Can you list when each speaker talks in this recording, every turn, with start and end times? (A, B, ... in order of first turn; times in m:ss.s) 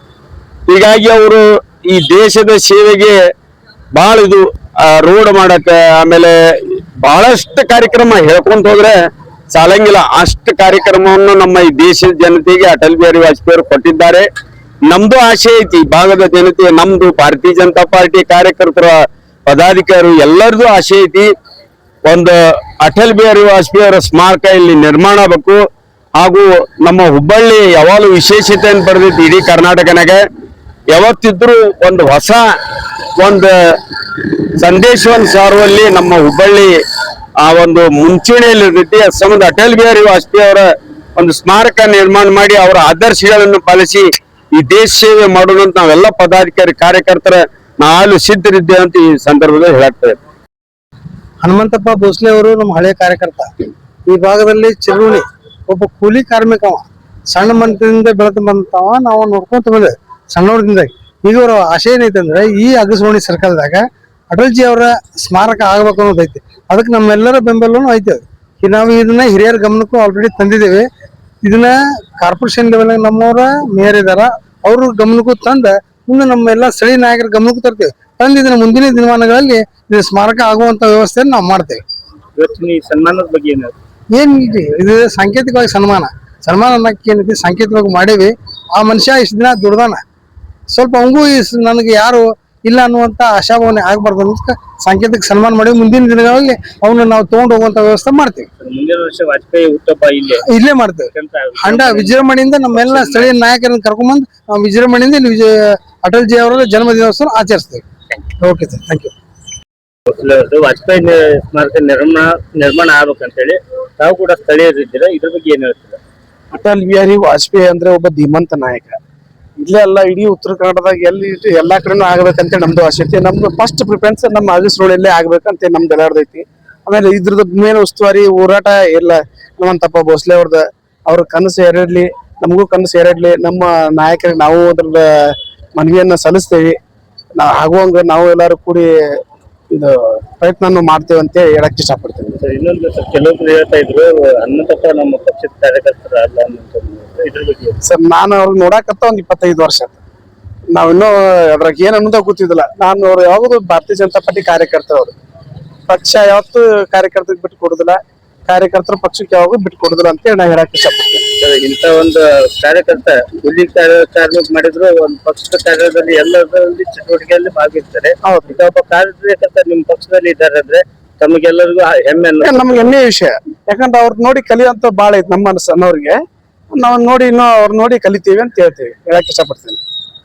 0:00.7-0:03.1 A
0:03.9-0:06.3 A
0:07.0-0:08.9 A
0:09.5-0:14.2 A
0:14.9-0:18.9 A
0:19.5-0:21.3 A
0:22.0-0:25.6 A
0:26.2-0:30.2 A
0:30.9-0:32.4 A
0:33.2-0:33.5 A
0:34.6-0:36.7 A
0:37.4-0:40.6 A
0:41.2-0:50.2 A
0:51.4-0:53.5 B
0:54.1-1:10.8 B
1:11.4-1:21.8 B
1:22.4-1:23.7 C
1:24.1-1:30.0 B
1:30.7-1:38.5 B
1:38.6-1:40.4 C
1:40.5-1:41.1 B
1:41.1-1:43.4 C
1:41.6-1:47.8 B
1:48.4-1:49.1 B
1:50.1-1:56.0 C
1:56.5-1:59.0 D
1:59.6-2:16.7 D
2:17.4-2:18.9 D
2:19.7-2:22.4 D
2:22.4-2:27.8 C
2:27.8-2:30.0 D
2:30.7-2:35.1 D
2:35.9-2:41.2 D
2:41.4-2:52.9 C
2:48.2-2:48.6 D
2:52.4-2:56.2 D
2:56.7-2:59.8 D